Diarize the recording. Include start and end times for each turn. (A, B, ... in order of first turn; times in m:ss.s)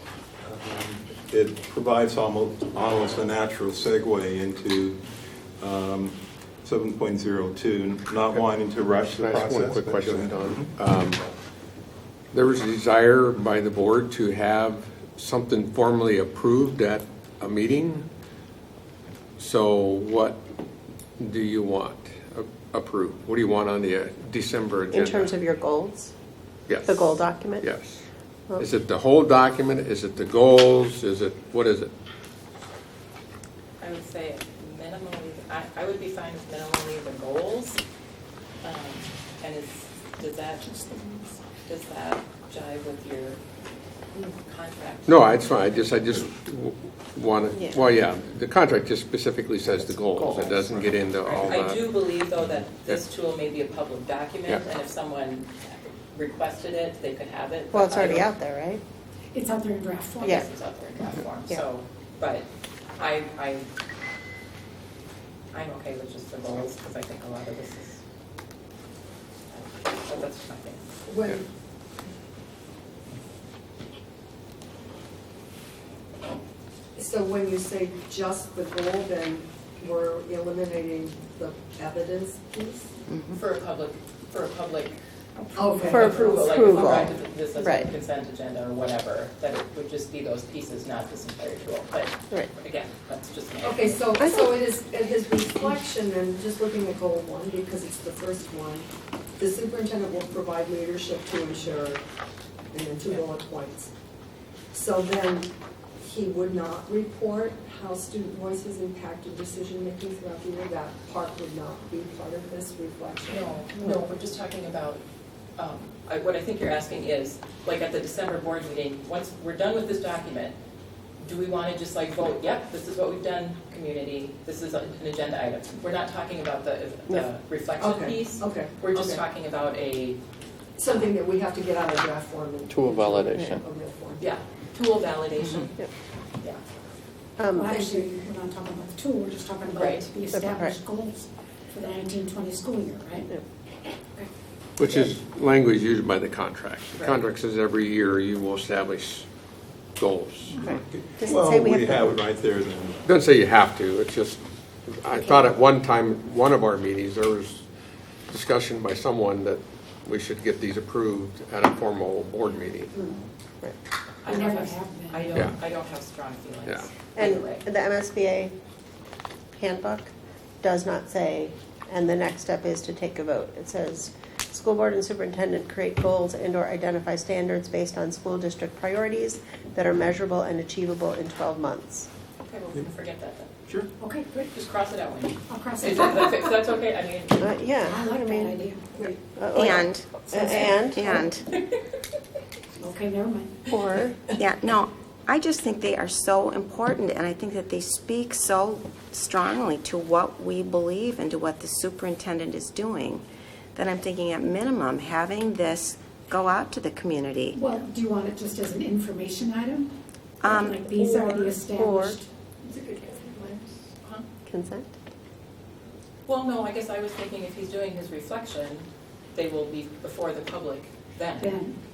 0:00.4-0:05.0 A
0:05.6-0:10.7 A
0:09.1-0:11.2 B
0:12.3-0:18.1 B
0:19.4-0:20.4 B
0:21.2-0:25.4 B
0:24.9-0:26.1 C
0:26.7-0:28.0 B
0:26.8-0:27.7 C
0:28.6-0:31.9 B
0:33.8-0:37.8 D
0:38.6-0:40.7 D
0:40.6-0:41.4 E
0:41.6-0:43.4 D
0:44.4-0:45.3 D
0:45.0-0:52.3 B
0:47.5-0:47.8 C
0:50.2-0:50.6 C
0:51.2-0:58.3 D
0:57.7-0:58.8 C
0:59.3-1:00.4 E
1:00.2-1:02.5 D
1:00.2-1:00.5 C
1:03.0-1:03.7 D
1:05.5-1:08.0 D
1:09.5-1:10.9 D
1:11.0-1:11.4 F
1:16.9-1:22.9 F
1:23.3-1:25.0 D
1:25.4-1:26.1 E
1:25.5-1:27.2 F
1:25.9-1:27.9 C
1:25.9-1:34.4 D
1:33.6-1:42.0 F
1:42.7-1:43.9 F
1:44.7-1:53.6 F
1:53.3-1:55.0 D
1:55.6-2:00.6 D
2:01.2-2:10.2 D
2:07.8-2:09.2 F
2:10.8-2:14.3 F
2:12.7-2:13.6 B
2:14.2-2:15.8 D
2:17.4-2:17.7 C
2:17.5-2:23.3 E
2:17.6-2:18.1 F
2:19.7-2:20.1 D
2:20.3-2:20.8 C
2:24.8-2:29.3 B
2:24.8-2:25.2 C
2:26.9-2:27.2 D
2:30.0-2:30.6 B
2:30.6-2:33.0 A
2:30.6-2:32.2 C
2:33.0-2:37.7 B
2:35.2-2:35.5 C
2:38.3-2:42.9 B
2:42.9-2:43.2 E
2:44.2-2:47.6 D
2:44.2-2:45.5 E
2:46.6-2:46.9 B
2:47.1-2:48.5 C
2:49.5-3:02.1 C
3:02.4-3:03.5 D
3:04.0-3:04.5 E
3:04.5-3:07.6 D
3:05.5-3:06.4 E
3:07.4-3:08.6 C
3:07.8-3:08.8 E
3:08.9-3:09.2 F
3:09.4-3:11.1 C
3:09.5-3:10.1 G
3:10.2-3:10.9 F
3:10.9-3:11.4 G
3:11.5-3:11.8 D
3:12.8-3:13.6 E
3:13.7-3:14.2 C
3:14.3-3:23.2 G
3:23.8-3:27.6 G
3:27.5-3:29.9 E
3:30.4-3:30.8 G
3:30.4-3:32.3 E
3:31.6-3:32.2 C
3:32.6-3:33.8 F
3:34.5-3:34.9 C
3:36.2-3:41.6 D
3:41.4-3:41.8 E